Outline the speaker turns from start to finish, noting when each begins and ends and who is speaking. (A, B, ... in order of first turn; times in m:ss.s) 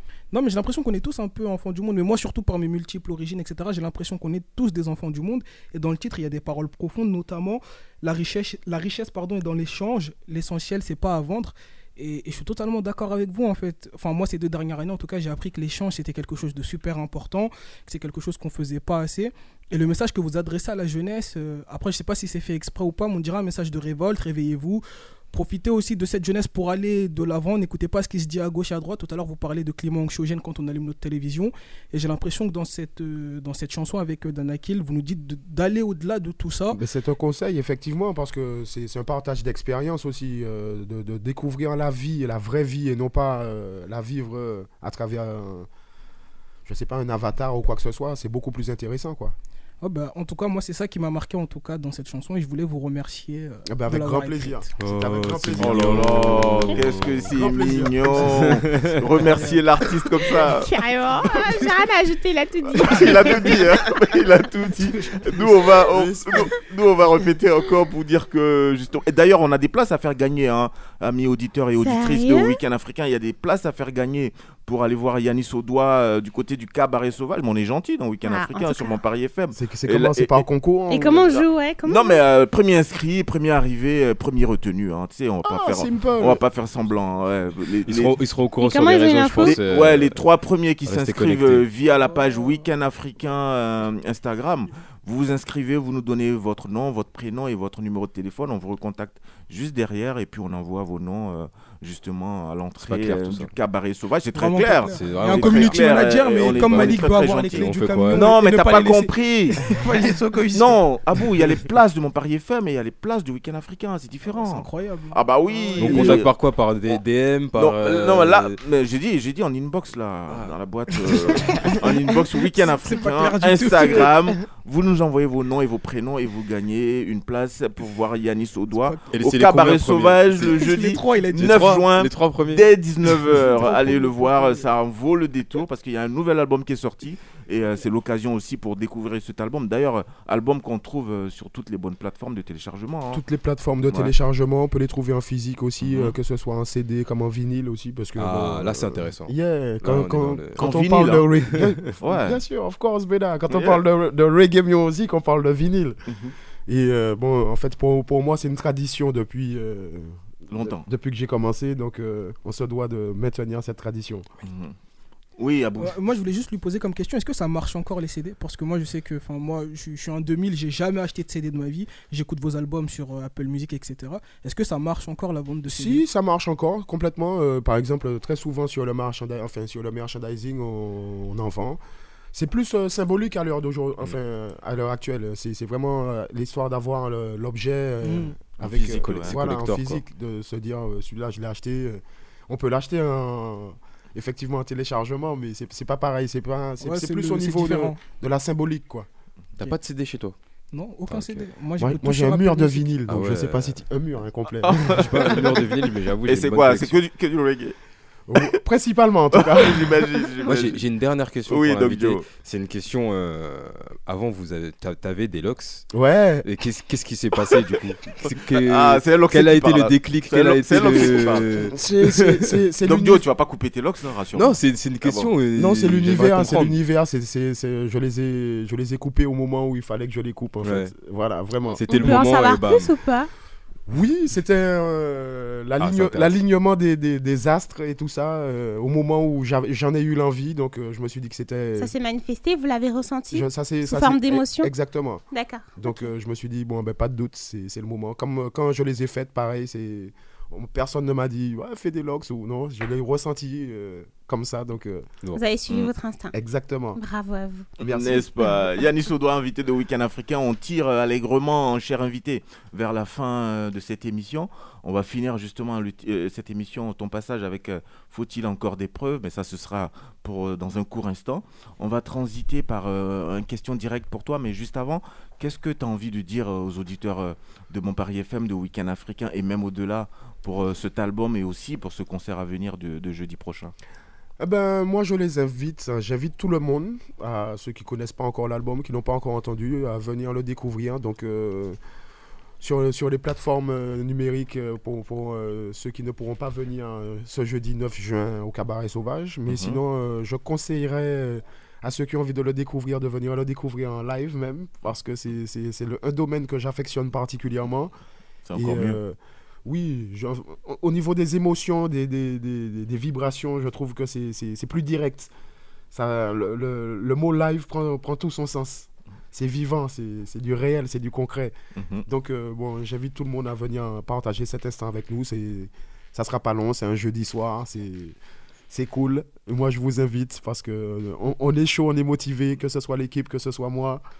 0:00.3-0:36.8 A
0:36.7-0:45.7 B
0:46.6-0:49.3 B
0:49.8-0:54.7 A
0:53.7-0:56.7 B
0:54.8-0:57.4 C
0:55.5-1:00.7 D
0:57.4-0:58.4 B
0:58.2-0:59.0 C
0:59.2-0:59.6 A
1:00.3-1:03.9 E
1:02.7-1:20.4 D
1:05.9-1:06.5 B
1:11.8-1:12.6 E
1:18.2-1:19.0 E
1:19.5-1:21.4 B
1:20.9-1:22.2 E
1:21.8-1:28.1 D
1:25.4-1:26.4 B
1:27.8-1:30.2 C
1:28.6-1:29.6 E
1:29.4-1:49.8 D
1:30.8-1:31.7 C
1:42.8-1:43.5 C
1:44.3-1:50.8 A
1:44.9-1:48.3 C
1:50.5-1:56.3 D
1:54.3-1:56.2 A
1:55.8-1:58.6 C
1:57.6-2:23.2 D
2:00.3-2:00.5 C
2:01.5-2:01.8 A
2:02.6-2:04.1 A
2:08.7-2:09.1 A
2:09.1-2:13.7 C
2:10.5-2:11.7 A
2:13.6-2:14.6 A
2:23.1-2:36.0 B
2:25.8-2:26.2 D
2:28.2-2:30.7 C
2:30.6-2:32.4 D
2:33.5-2:33.8 D
2:36.1-2:36.3 D
2:36.7-2:44.3 B
2:40.5-2:40.8 D
2:44.4-2:44.7 D
2:45.4-2:45.9 D
2:45.8-2:56.0 A
2:55.7-3:01.8 B
3:02.3-3:19.1 B
3:08.0-3:08.3 A
3:08.6-3:09.4 D
3:08.8-3:10.0 C
3:16.8-3:18.0 A
3:19.6-3:20.3 C
3:20.7-3:22.9 A
3:21.1-3:21.5 C
3:21.8-3:25.1 B
3:23.1-3:23.8 C
3:24.6-3:27.8 D
3:24.9-3:27.0 C
3:28.3-3:30.2 B
3:29.3-3:30.8 D
3:30.4-3:35.9 C
3:31.4-3:32.2 D
3:35.9-3:36.5 B
3:36.4-3:41.8 C
3:38.2-3:41.7 D
3:40.7-3:43.2 B
3:42.8-3:45.3 D
3:44.3-3:46.8 C
3:45.6-3:51.8 B
3:46.3-3:46.8 D
3:50.6-3:50.9 C
3:51.7-3:52.9 C
3:51.9-3:53.3 E
3:53.9-4:01.9 B
3:55.8-3:56.4 C
4:01.8-4:04.7 E
4:03.3-4:05.2 B
4:05.3-4:06.0 E
4:05.8-4:15.1 B
4:15.3-4:16.3 E
4:16.3-4:17.0 B
4:17.0-4:17.7 E
4:17.8-4:18.6 B
4:17.8-4:43.7 D
4:44.4-4:51.8 B
4:52.6-5:07.9 B
4:59.5-4:59.8 D
5:08.5-5:09.0 D
5:08.5-5:15.3 B
5:15.9-5:21.5 B
5:21.8-5:22.0 D
5:22.1-5:28.2 B
5:28.7-5:34.0 B